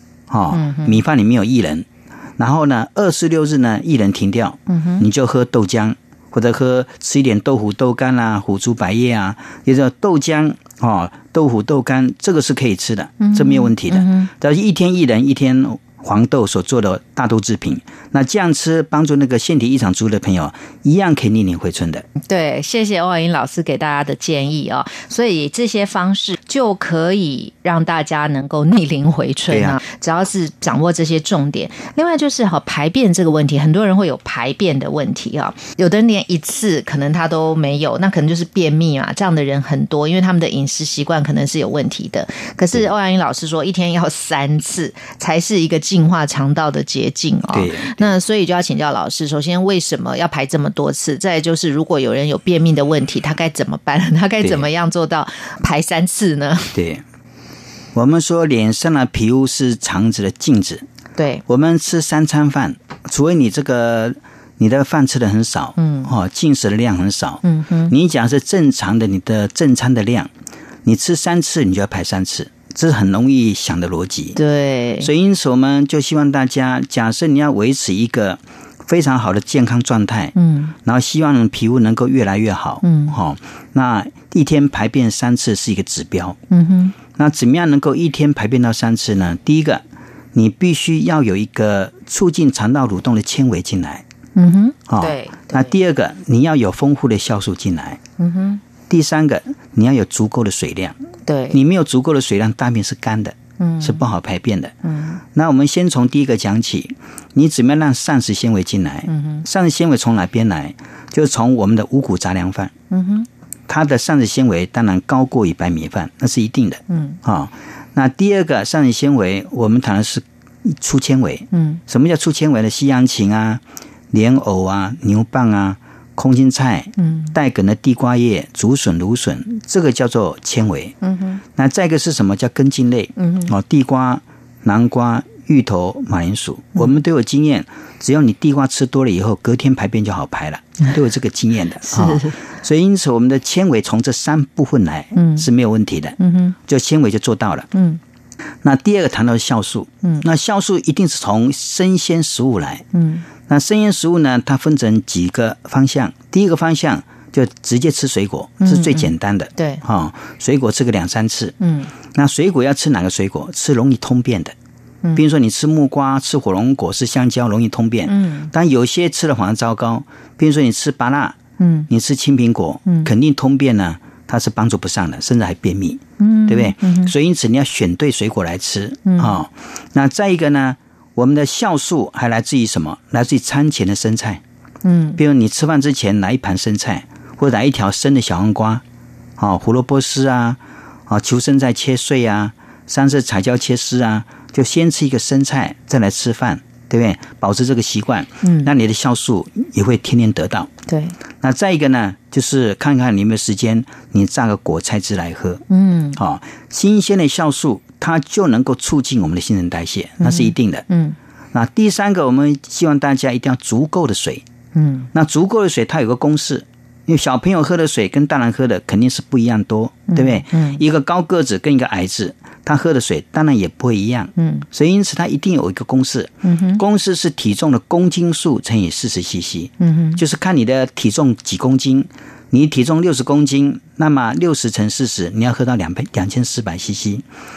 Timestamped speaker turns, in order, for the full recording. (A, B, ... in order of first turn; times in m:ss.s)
0:00.3-0:01.9 A
0:00.5-0:01.0 B
0:02.4-0:22.1 A
0:04.7-0:05.0 B
0:13.2-0:14.3 B
0:22.2-0:56.8 B
0:29.5-0:29.8 A
0:47.5-0:48.1 A
0:56.7-0:57.0 A
0:57.9-1:00.8 A
1:01.2-1:01.4 B
1:01.5-1:10.3 A
1:05.8-1:06.1 B
1:07.4-1:07.9 B
1:10.8-1:14.4 A
1:14.4-1:15.1 B
1:15.0-1:26.4 A
1:20.4-1:20.7 B
1:22.8-1:23.2 B
1:26.5-1:27.0 B
1:27.1-1:29.8 A
1:30.3-1:34.0 A
1:34.4-1:35.7 B
1:34.9-1:38.0 A
1:38.2-1:38.6 B
1:38.9-1:41.0 A
1:41.3-1:41.6 B
1:41.5-1:44.8 A
1:43.6-1:44.0 B
1:44.8-1:45.2 B
1:45.3-1:52.7 A
1:49.1-1:49.4 B
1:52.9-1:53.3 B
1:53.7-2:11.0 A
1:56.9-1:57.2 B
2:01.5-2:01.8 B
2:07.0-2:07.3 B
2:11.0-2:11.4 B
2:11.5-2:27.7 A
2:13.2-2:13.5 B
2:21.8-2:22.4 B
2:25.2-2:25.5 B
2:26.2-2:26.6 B
2:27.7-2:28.0 B
2:28.6-2:32.9 A
2:32.9-2:33.3 B
2:33.5-2:41.6 A
2:38.6-2:39.8 B
2:41.6-2:41.9 B
2:42.1-2:44.5 A
2:45.2-2:51.4 A
2:48.1-2:48.5 B
2:51.6-2:51.9 B
2:51.9-3:04.4 A
2:56.2-2:57.1 B
2:59.1-2:59.4 B
3:04.8-3:05.2 B
3:05.2-3:08.8 A
3:09.4-3:20.7 A
3:18.4-3:18.7 B
3:20.9-3:21.2 B
3:21.4-3:25.6 A
3:25.7-3:26.2 B
3:26.2-3:30.9 A
3:30.2-3:31.2 B
3:31.5-3:34.4 A
3:34.8-3:35.1 B
3:35.1-3:57.2 A
3:40.1-3:40.8 B
3:44.4-3:44.7 B
3:46.4-3:46.8 B
3:49.8-3:50.2 B